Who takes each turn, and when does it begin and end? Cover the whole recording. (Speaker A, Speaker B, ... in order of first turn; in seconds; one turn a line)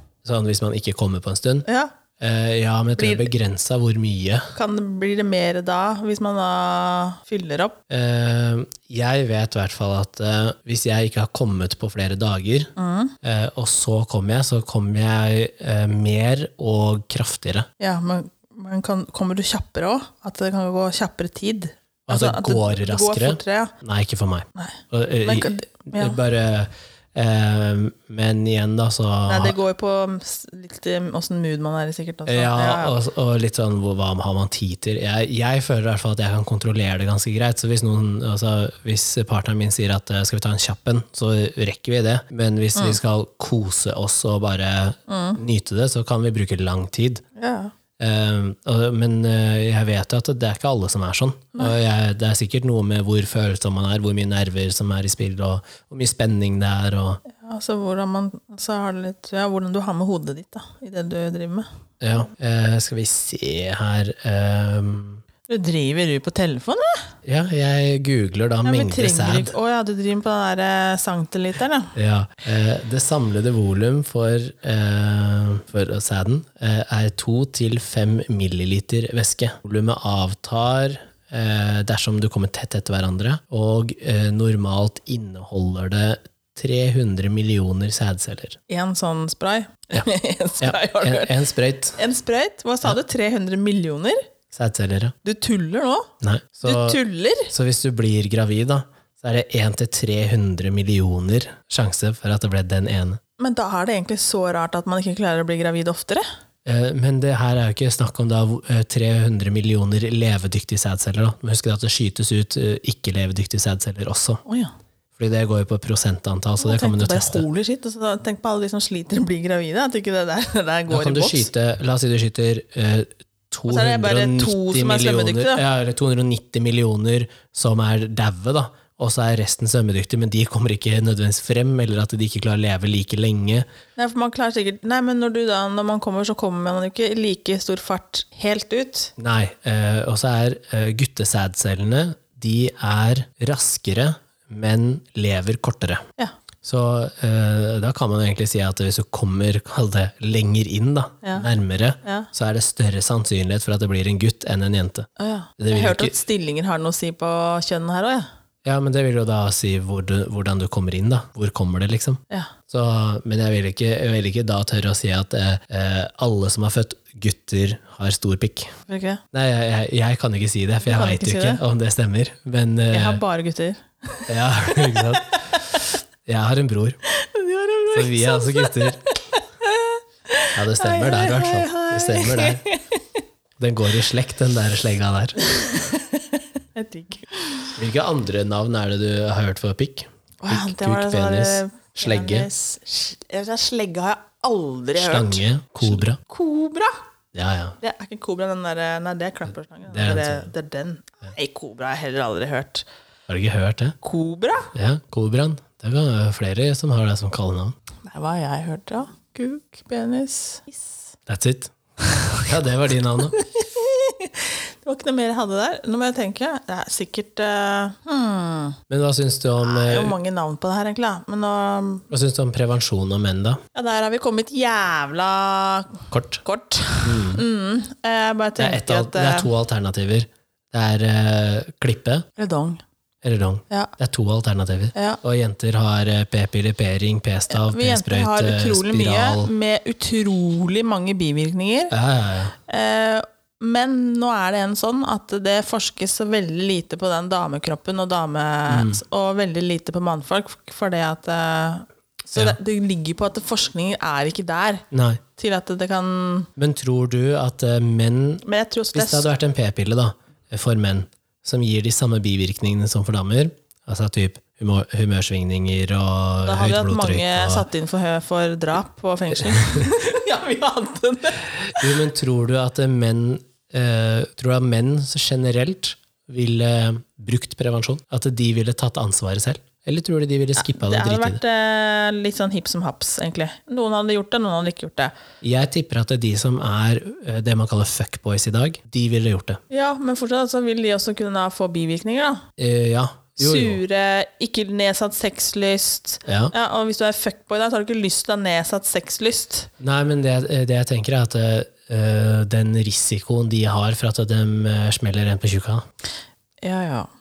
Speaker A: 0.2-1.6
Speaker B: 1.6-1.9
Speaker A: 2.2-4.5
Speaker B: 2.9-3.3
Speaker B: 4.5-7.8
Speaker A: 7.9-17.7
Speaker B: 12.8-13.2
Speaker B: 17.8-23.7
Speaker A: 22.1-29.6
Speaker B: 24.6-26.2
Speaker B: 29.3-33.0
Speaker A: 32.3-47.2
Speaker B: 45.1-45.4
Speaker B: 47.4-47.7
Speaker A: 48.0-57.2
Speaker B: 57.3-61.7
Speaker A: 62.0-65.2
Speaker B: 65.5-67.1
Speaker A: 67.2-69.5
Speaker B: 68.6-71.9
Speaker A: 71.9-88.6
Speaker B: 88.7-91.4
Speaker A: 90.6-92.0
Speaker B: 92.0-94.2
Speaker A: 94.5-95.1
Speaker B: 95.2-96.1
Speaker A: 96.2-97.0
Speaker B: 96.6-97.5
Speaker A: 97.5-103.2
Speaker B: 103.4-106.2
Speaker A: 106.6-114.4
Speaker B: 114.5-114.7
Speaker A: 115.2-117.4
Speaker B: 116.6-121.5
Speaker A: 120.9-133.7
Speaker B: 123.7-125.6
Speaker B: 133.9-139.1
Speaker A: 139.2-146.0
Speaker A: 146.6-156.2
Speaker B: 151.2-151.5
Speaker B: 152.0-152.3
Speaker B: 155.2-158.3
Speaker A: 158.6-168.7
Speaker B: 168.9-169.2
Speaker A: 169.3-173.2
Speaker B: 170.8-171.6
Speaker B: 172.9-175.9
Speaker A: 174.3-175.4
Speaker A: 176.2-177.0
Speaker B: 177.1-183.2
Speaker A: 177.9-179.0
Speaker A: 180.5-182.6
Speaker A: 183.6-185.4
Speaker B: 185.4-187.7
Speaker A: 187.8-192.5
Speaker B: 190.4-196.9
Speaker A: 194.9-196.2
Speaker A: 197.3-197.8
Speaker B: 197.8-202.8
Speaker A: 199.9-200.5
Speaker A: 203.3-203.9
Speaker B: 204.0-204.7
Speaker A: 204.7-207.8
Speaker B: 208.1-211.0
Speaker A: 211.3-213.3
Speaker B: 212.0-212.5
Speaker B: 213.3-218.8
Speaker A: 218.9-220.1
Speaker B: 219.6-222.0
Speaker A: 222.1-223.6
Speaker B: 223.7-229.5
Speaker A: 226.1-226.4
Speaker A: 227.0-227.4
Speaker A: 228.6-232.2
Speaker B: 232.4-232.8
Speaker A: 233.2-239.5
Speaker B: 234.9-235.2
Speaker B: 237.5-241.9
Speaker A: 241.9-242.5
Speaker B: 242.7-254.8
Speaker A: 248.7-249.0
Speaker A: 254.9-255.2
Speaker B: 255.3-256.5
Speaker A: 256.6-258.4
Speaker B: 258.4-259.3
Speaker A: 258.9-267.6
Speaker B: 266.4-272.0
Speaker A: 269.3-269.9
Speaker A: 271.7-281.4
Speaker B: 280.6-285.1
Speaker A: 285.4-289.6
Speaker B: 289.7-292.4
Speaker A: 292.6-293.8
Speaker B: 293.4-299.7
Speaker A: 296.2-296.5
Speaker A: 299.8-305.8
Speaker B: 306.6-307.1